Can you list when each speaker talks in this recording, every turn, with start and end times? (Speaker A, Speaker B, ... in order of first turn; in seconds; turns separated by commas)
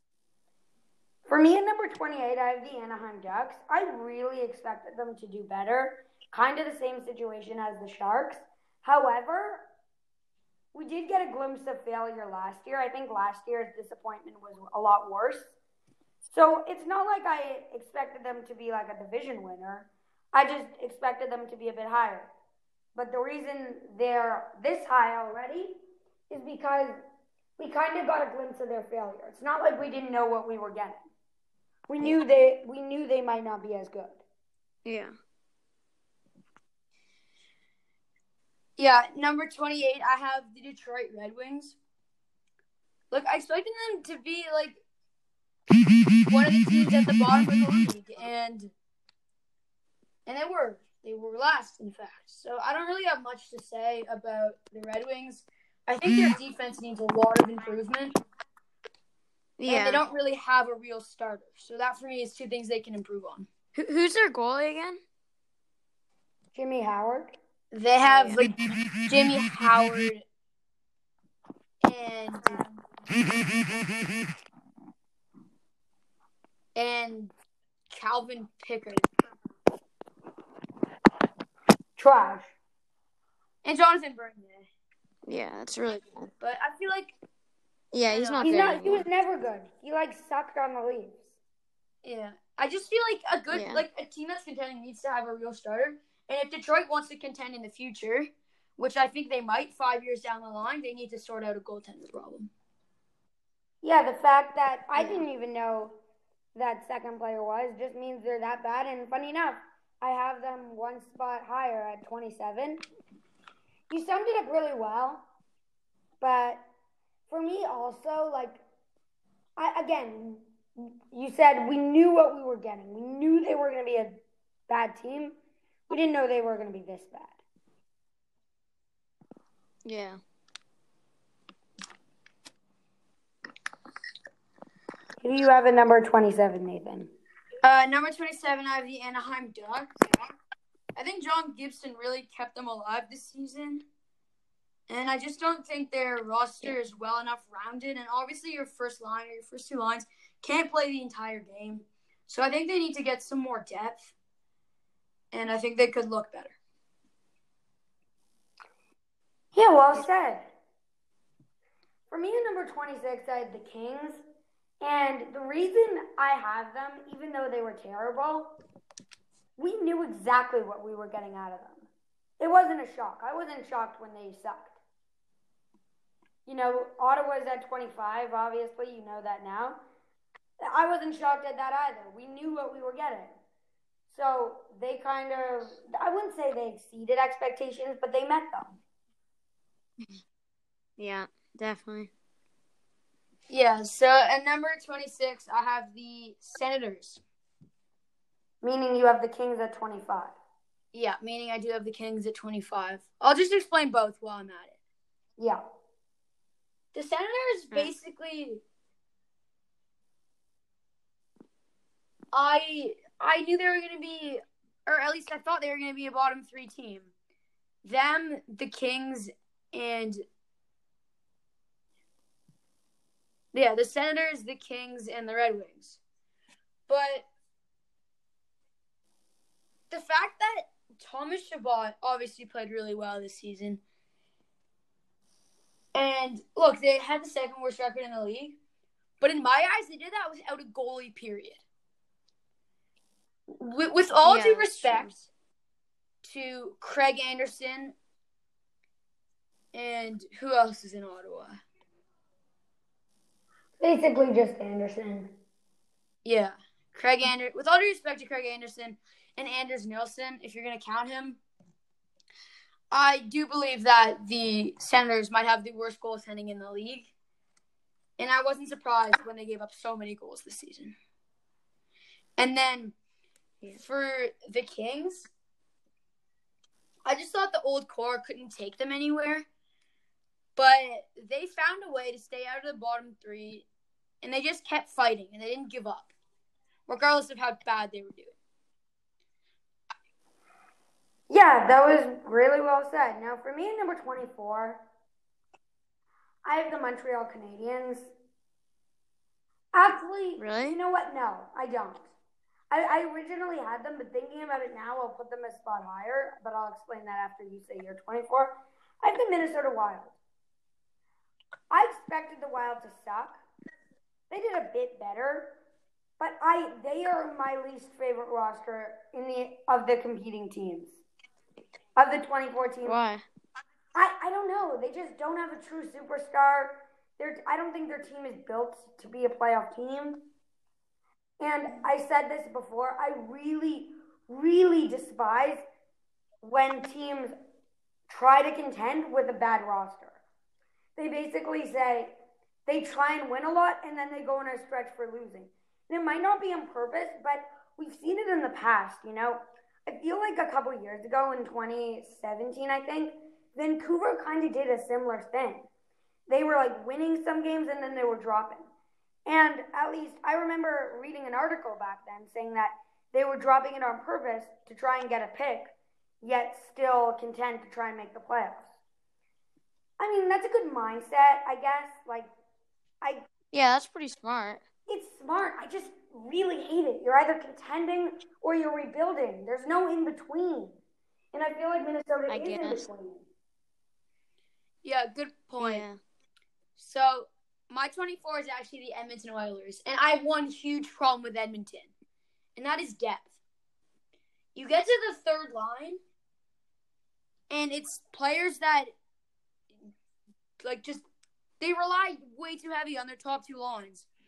Speaker A: 1.3-9.7, Speaker A: 10.7-15.5, Speaker A: 16.2-22.3, Speaker A: 22.9-25.8, Speaker A: 26.3-27.0, Speaker A: 27.6-31.0, Speaker A: 31.9-34.2, Speaker B: 34.9-35.1, Speaker C: 38.8-41.8, Speaker C: 43.1-44.8, Speaker C: 46.3-48.7, Speaker C: 50.3-58.2, Speaker B: 59.6-60.0, Speaker C: 59.7-63.5, Speaker B: 63.7-65.0, Speaker A: 66.5-67.3, Speaker C: 67.7-68.5, Speaker B: 68.0-68.5, Speaker C: 69.1-70.2, Speaker C: 71.8-72.6, Speaker C: 76.8-77.3, Speaker C: 77.9-79.1, Speaker A: 82.0-82.5, Speaker C: 83.6-84.7, Speaker B: 85.3-86.3, Speaker C: 86.4-87.2, Speaker B: 87.9-89.1, Speaker C: 88.1-88.9, Speaker A: 88.4-91.3, Speaker C: 92.0-102.5, Speaker B: 93.5-93.8, Speaker A: 103.8-106.0, Speaker B: 105.0-105.2, Speaker A: 106.5-112.8, Speaker A: 113.9-115.2, Speaker A: 116.2-116.7, Speaker A: 117.3-118.6, Speaker A: 119.6-125.4, Speaker A: 125.9-127.4, Speaker B: 129.8-130.2, Speaker A: 135.2-137.1, Speaker C: 137.6-139.9, Speaker C: 140.9-143.8, Speaker C: 144.9-154.1, Speaker C: 155.3-156.6, Speaker A: 159.5-160.5, Speaker A: 162.1-164.2, Speaker A: 164.8-168.6, Speaker A: 169.6-171.9, Speaker A: 172.4-174.8, Speaker A: 176.5-179.8, Speaker A: 180.6-183.3, Speaker A: 184.1-188.8, Speaker B: 191.0-192.1, Speaker C: 193.5-197.2, Speaker A: 198.6-200.4, Speaker C: 200.9-204.8, Speaker A: 205.4-205.6, Speaker C: 206.9-208.6, Speaker C: 212.3-217.1, Speaker C: 217.8-220.2, Speaker C: 223.5-226.0, Speaker C: 226.9-227.3, Speaker C: 229.9-233.8, Speaker C: 235.9-238.6, Speaker C: 239.2-241.6, Speaker C: 243.6-245.3, Speaker B: 244.2-245.1, Speaker C: 246.2-247.9, Speaker C: 249.7-251.6, Speaker A: 253.8-255.3, Speaker C: 256.2-261.4, Speaker C: 262.9-267.1, Speaker C: 268.2-271.0, Speaker C: 272.4-272.9, Speaker C: 273.7-275.3, Speaker C: 277.1-279.5, Speaker C: 280.6-283.7, Speaker C: 284.2-286.1, Speaker C: 286.9-288.3, Speaker A: 291.3-294.8, Speaker A: 296.4-298.1, Speaker A: 299.7-302.1, Speaker B: 300.4-300.8, Speaker A: 302.7-310.2, Speaker A: 311.7-313.4, Speaker A: 314.3-315.6, Speaker A: 316.2-321.0, Speaker A: 322.0-323.0, Speaker B: 322.9-323.2, Speaker A: 323.9-330.3, Speaker A: 331.4-335.6, Speaker A: 336.4-337.4, Speaker A: 338.1-340.2, Speaker A: 341.0-342.1, Speaker A: 342.7-355.7, Speaker A: 356.3-358.7, Speaker A: 359.3-368.7, Speaker A: 370.0-372.3, Speaker A: 373.0-373.3, Speaker B: 373.5-374.6, Speaker A: 374.9-380.8, Speaker A: 381.3-383.3, Speaker B: 382.3-382.9, Speaker C: 384.8-385.9, Speaker B: 385.6-386.0, Speaker C: 386.8-391.9, Speaker C: 392.6-393.4, Speaker C: 394.6-396.0, Speaker C: 397.5-398.9, Speaker C: 400.6-401.1, Speaker C: 401.6-404.1